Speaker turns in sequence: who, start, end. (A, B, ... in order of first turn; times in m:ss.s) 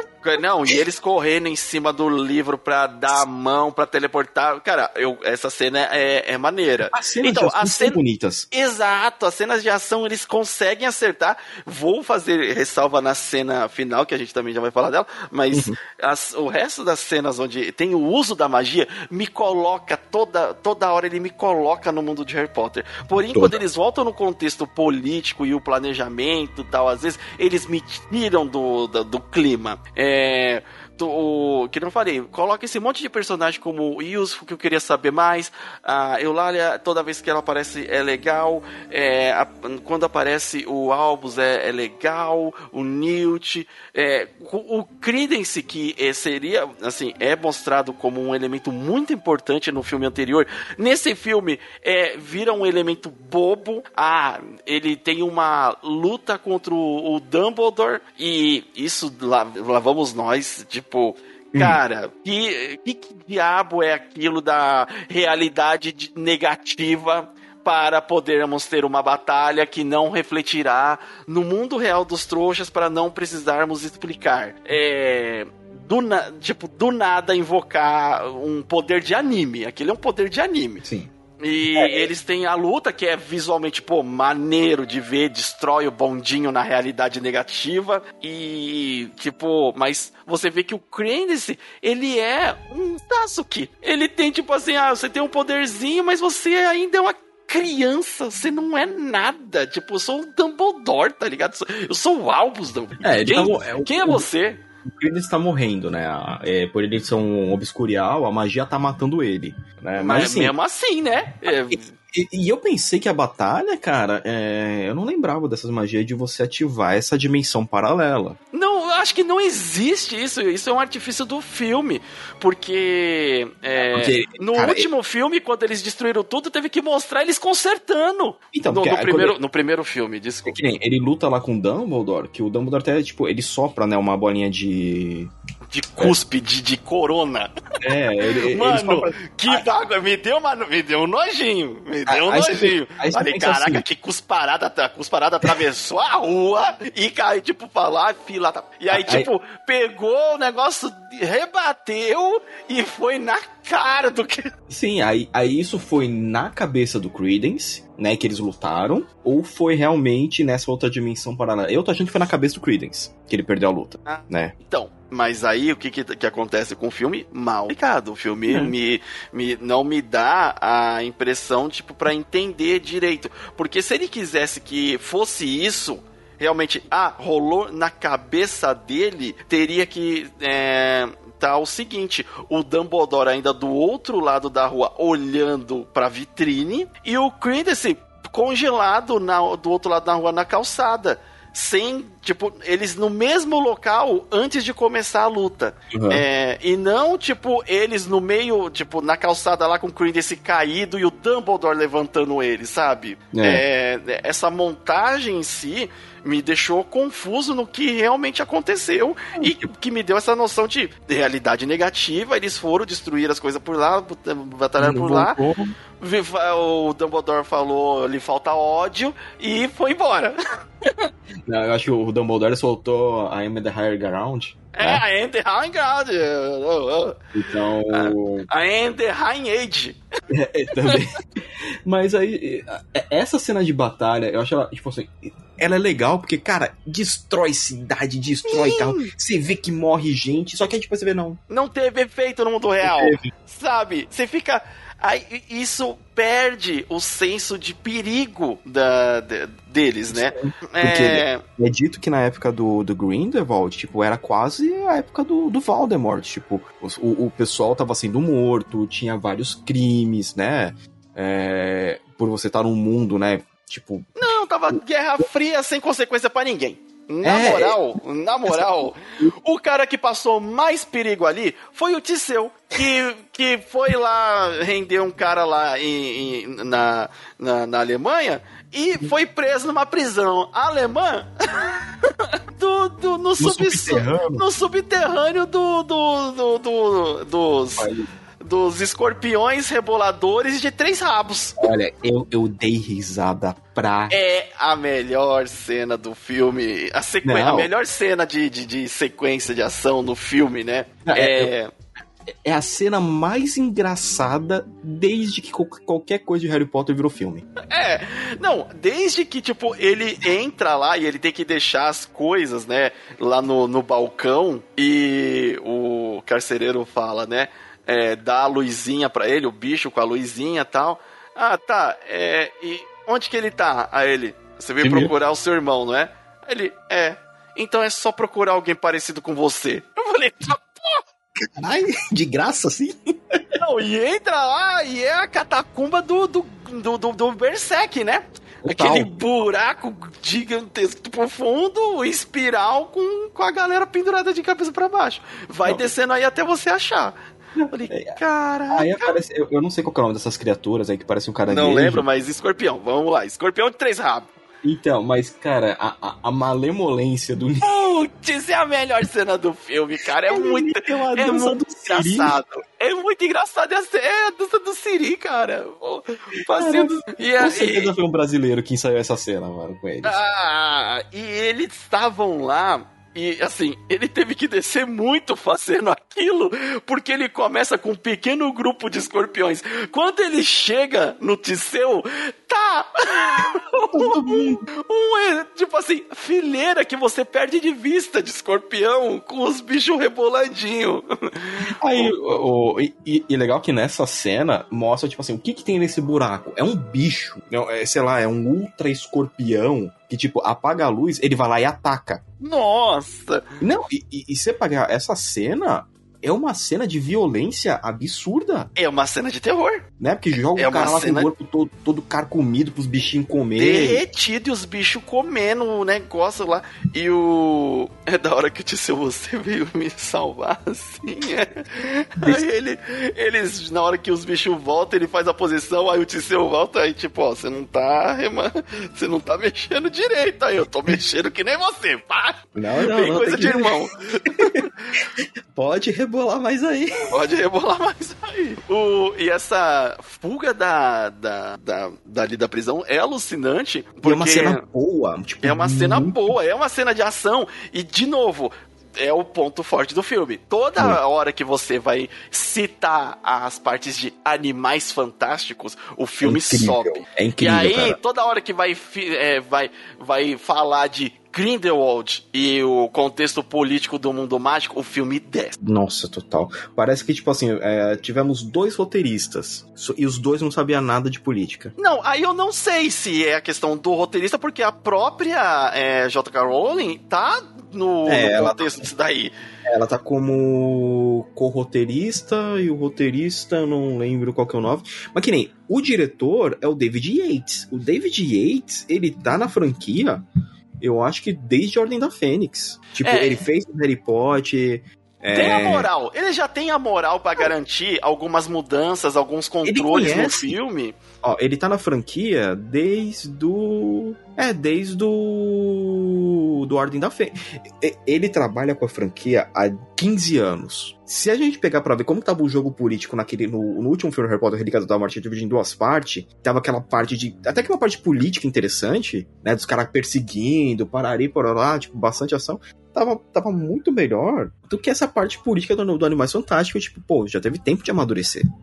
0:00.2-0:08.0 A
0:06.9-0:08.5 B
0:08.5-1:20.8 A
0:15.5-0:15.8 B
0:23.2-0:23.6 B
1:20.8-1:21.1 B
1:21.4-1:44.6 A
1:21.8-1:22.1 B
1:43.0-1:44.3 B
1:44.8-1:50.5 B
1:50.0-1:51.9 A
1:51.4-1:58.4 B
1:58.5-2:10.6 A
2:03.8-2:04.9 B
2:08.5-2:09.3 B
2:10.5-2:15.3 B
2:15.7-2:17.5 A
2:17.8-2:19.6 B
2:18.3-2:34.5 A
2:22.1-2:23.8 B
2:28.9-2:29.3 B
2:34.7-2:44.5 B
2:44.1-3:35.4 A
3:15.9-3:16.2 B
3:23.3-3:23.6 B
3:34.8-3:35.7 B
3:36.0-3:41.1 A
3:41.4-3:45.0 B
3:44.7-3:47.2 A
3:47.3-3:48.5 B
3:47.9-3:50.0 A
3:50.3-3:51.2 B
3:50.7-3:51.0 A
3:51.9-4:01.4 B
3:58.4-3:59.1 A
4:01.5-4:11.4 A
4:02.8-4:03.3 B
4:10.1-4:24.1 B
4:24.2-4:47.9 A
4:27.2-4:27.8 B
4:28.5-4:28.9 B
4:43.4-4:44.4 B
4:47.8-4:48.1 B
4:48.4-4:51.6 A
4:51.6-4:54.2 B
4:54.1-5:01.7 A
4:57.2-4:57.7 B
5:01.0-5:01.5 B
5:02.4-5:07.4 B
5:07.7-5:31.0 A
5:24.8-5:25.1 B
5:31.4-5:33.6 B
5:33.6-5:47.1 A
5:38.6-5:39.1 B
5:47.6-5:48.2 B
5:47.7-5:49.2 A
5:48.7-5:52.0 B
5:51.5-5:54.3 A
5:54.6-5:57.7 B
5:57.6-6:07.9 A
6:00.3-6:02.5 B
6:06.5-6:10.2 B
6:10.0-6:32.1 A
6:23.9-6:24.7 B
6:31.8-6:42.2 B
6:42.4-6:43.4 A
6:43.6-6:48.7 B
6:48.8-6:49.8 A
6:50.0-6:54.0 B
6:50.6-6:51.3 A
6:53.6-7:14.9 A
7:12.6-7:13.8 B
7:14.3-7:16.9 B
7:17.1-7:24.6 A
7:24.0-7:26.3 B
7:25.4-7:45.6 A
7:36.2-7:38.0 B
7:45.6-7:51.7 B
7:51.8-7:59.3 A
7:58.1-7:58.9 B
7:59.6-8:10.2 B
8:10.8-8:15.9 B
8:13.0-8:13.4 A
8:15.3-8:21.0 A
8:19.6-8:20.6 B
8:21.2-8:48.4 B